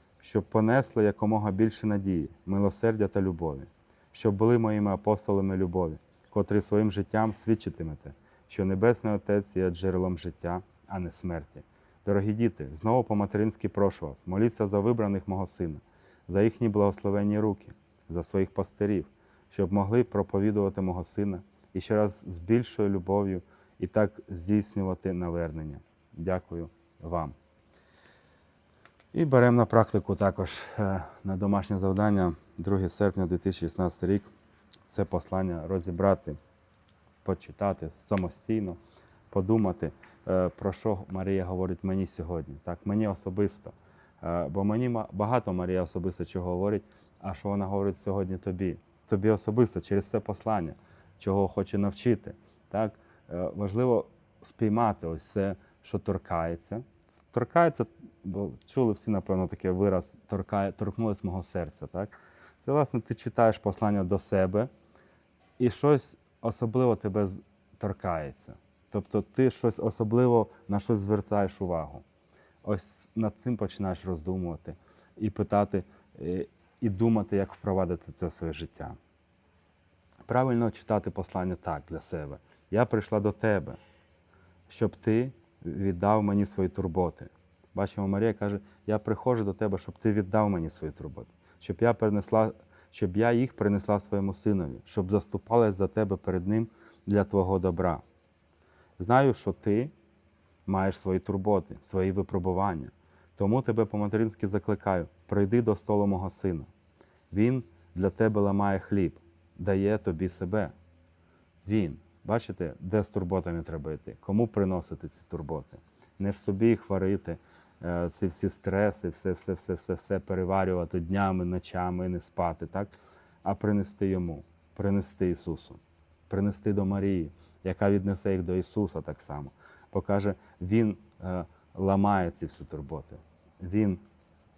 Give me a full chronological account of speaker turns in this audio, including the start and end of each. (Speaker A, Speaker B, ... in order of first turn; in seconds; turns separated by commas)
Speaker A: 0.2-27.3, Speaker A: 29.1-34.3, Speaker A: 34.9-36.4, Speaker A: 37.2-38.8, Speaker A: 39.3-64.7, Speaker A: 65.6-72.0, Speaker A: 72.6-79.0, Speaker A: 80.3-83.8, Speaker A: 84.7-98.0, Speaker A: 99.0-99.9, Speaker A: 100.7-106.7, Speaker A: 107.3-110.7, Speaker A: 111.6-122.9, Speaker A: 123.4-134.0